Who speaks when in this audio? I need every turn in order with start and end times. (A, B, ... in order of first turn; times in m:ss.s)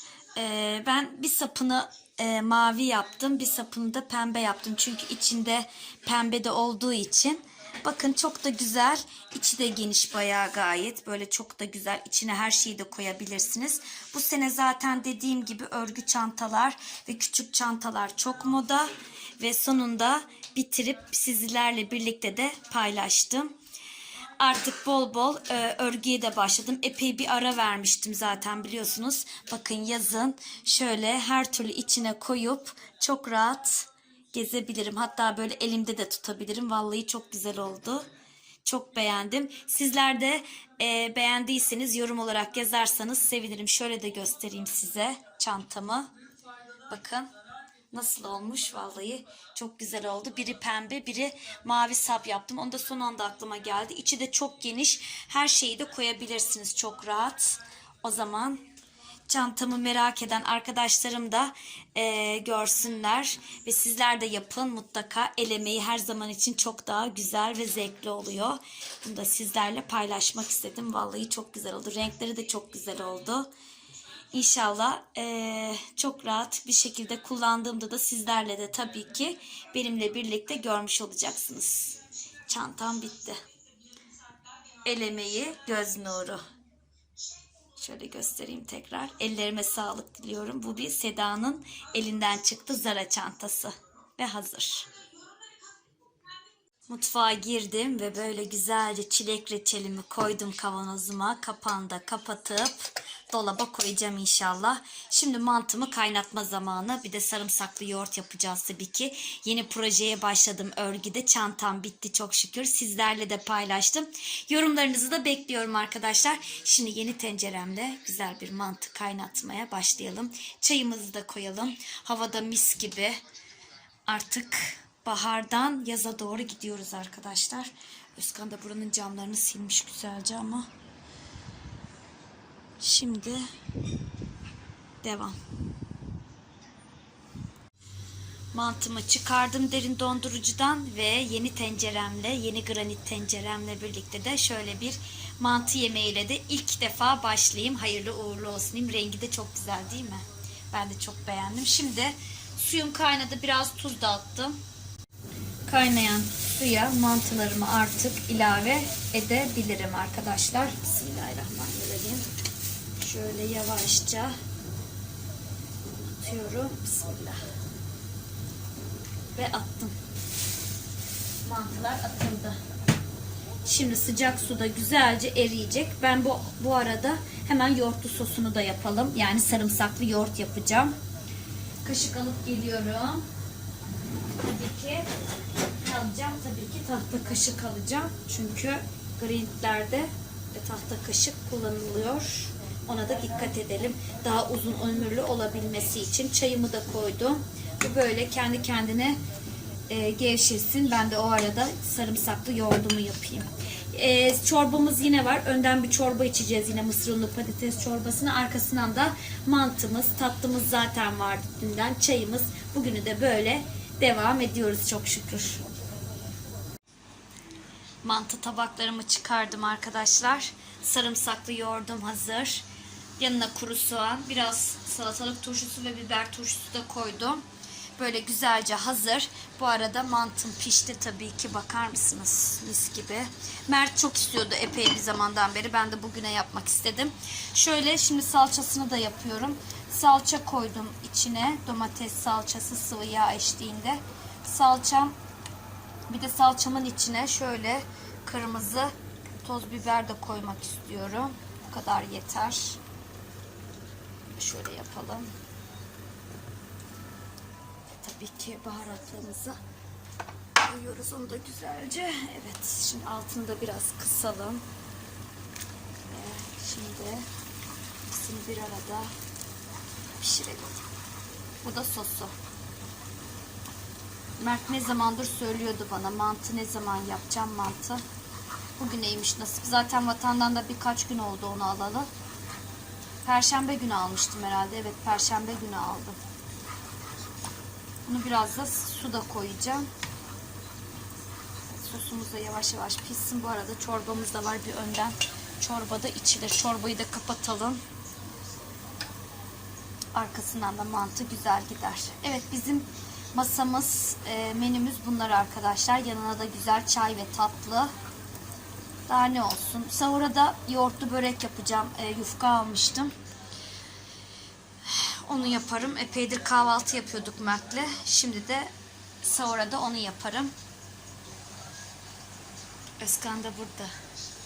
0:00.4-0:23.6 A
0:24.4-0:38.1 A
0:38.6-0:46.1 A
0:46.9-0:47.3 A
0:47.9-0:58.6 A
0:59.3-1:13.5 A
1:14.3-1:23.4 A
1:24.8-1:26.4 A
1:27.8-1:34.9 A
1:36.9-2:03.2 A
2:04.1-2:10.7 A
2:12.8-2:13.5 A
2:15.0-2:15.4 A
2:18.5-2:34.6 A
2:35.7-2:42.3 A
2:43.0-2:44.4 A
2:46.0-2:47.4 A
2:49.3-2:50.0 A
2:51.4-2:52.6 A
2:53.6-3:01.0 A
3:01.8-3:03.2 A
3:04.4-3:05.1 A
3:05.8-3:19.2 A
3:19.9-3:35.6 A
3:38.0-3:42.6 A
3:43.2-3:47.4 A
3:48.0-4:05.2 A
4:06.1-4:12.8 A
4:14.4-4:15.3 A
4:18.0-4:19.6 A
4:20.6-4:24.6 A
4:26.1-4:27.3 A
4:28.1-4:29.1 A
4:30.2-4:30.9 A
4:31.6-4:32.3 A
4:34.4-4:38.0 A
4:38.8-4:42.1 A
4:43.2-4:46.2 A
4:48.1-4:49.9 A
4:51.7-4:57.8 A
5:00.1-5:07.9 A
5:09.1-5:13.1 A
5:14.8-5:20.5 A
5:23.0-5:23.9 A